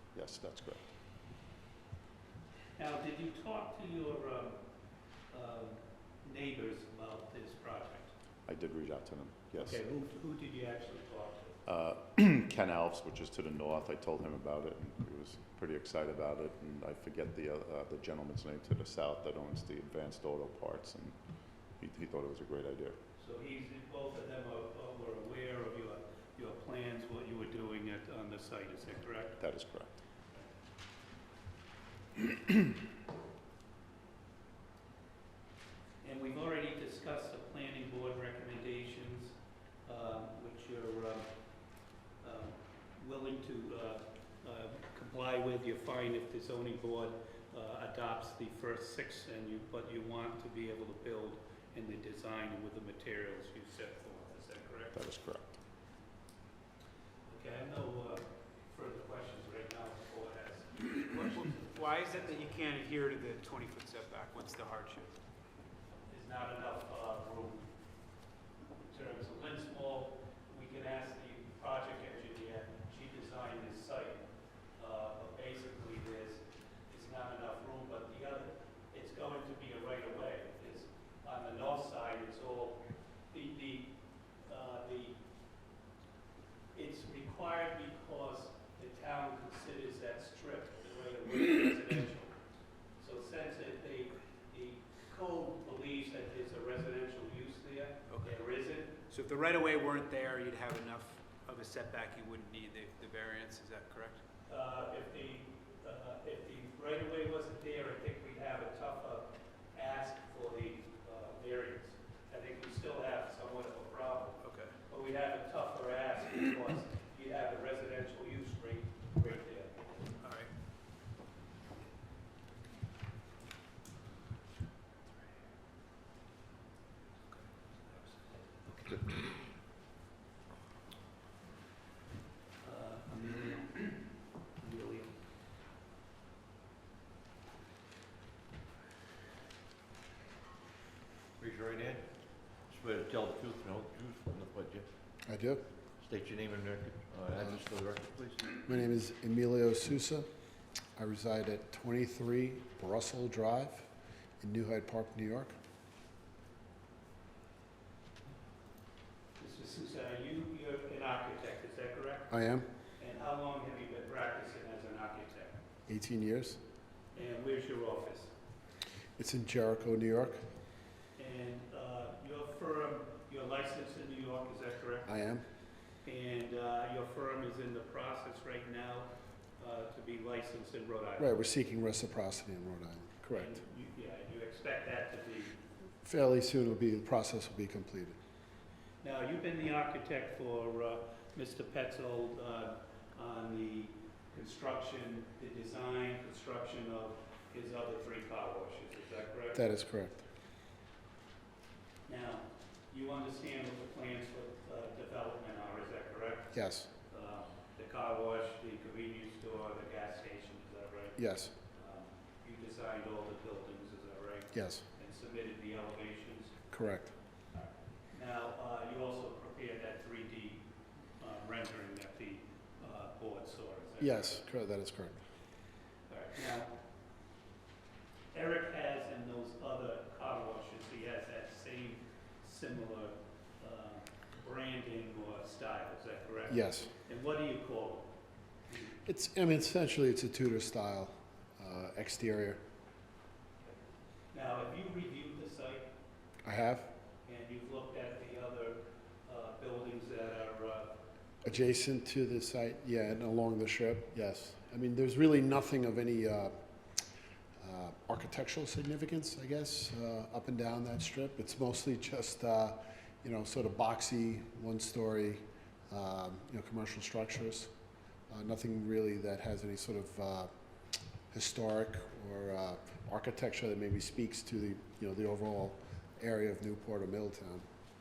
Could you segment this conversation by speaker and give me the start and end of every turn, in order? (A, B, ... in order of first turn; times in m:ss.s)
0:00.1-0:00.8 A
0:02.8-0:04.6 B
0:05.3-0:08.1 B
0:08.5-0:09.8 A
0:09.6-0:11.6 B
0:11.6-0:21.2 A
0:21.8-0:23.0 A
0:23.2-0:29.4 B
0:29.4-0:29.9 A
0:36.0-0:41.3 B
0:42.2-0:55.0 B
0:54.9-0:55.5 A
0:57.3-1:02.5 B
1:01.0-1:05.1 C
1:06.1-1:07.7 B
1:08.8-1:23.9 B
1:24.4-1:25.2 B
1:26.7-1:32.3 B
1:33.0-1:39.1 B
1:39.1-1:44.2 C
1:44.5-2:00.2 B
1:54.4-1:54.7 C
2:00.2-2:00.5 C
2:12.6-2:15.2 B
2:21.4-2:24.9 D
2:25.2-2:25.6 E
2:26.0-2:28.6 D
2:28.6-2:30.3 E
2:31.0-2:33.9 E
2:34.4-2:35.6 E
2:39.4-2:42.3 B
2:42.3-2:42.6 E
2:43.0-2:45.6 B
2:45.9-2:46.6 E
2:47.1-2:48.3 B
2:49.2-2:50.4 E
2:51.2-2:55.1 B
2:55.1-2:55.4 E
2:56.0-3:01.4 B
3:01.2-3:03.6 E
3:03.4-3:05.6 B
3:06.0-3:08.2 E
3:09.0-3:19.8 B
3:19.5-3:20.2 E
3:22.1-3:36.6 B
3:26.5-3:26.9 E
3:31.2-3:31.5 E
3:34.5-3:34.8 E
3:36.7-3:37.1 E
3:37.5-3:40.6 B
3:41.2-3:44.4 B
3:44.0-3:45.2 E
3:46.1-3:46.8 B
3:48.3-3:58.1 B
3:56.5-3:56.9 E
3:59.0-4:02.6 E
4:04.3-4:05.9 B
4:06.4-4:06.9 E
4:07.2-4:11.0 B
4:11.4-4:16.6 E
4:17.6-4:27.7 E
4:28.3-4:30.5 E
4:31.3-4:37.6 E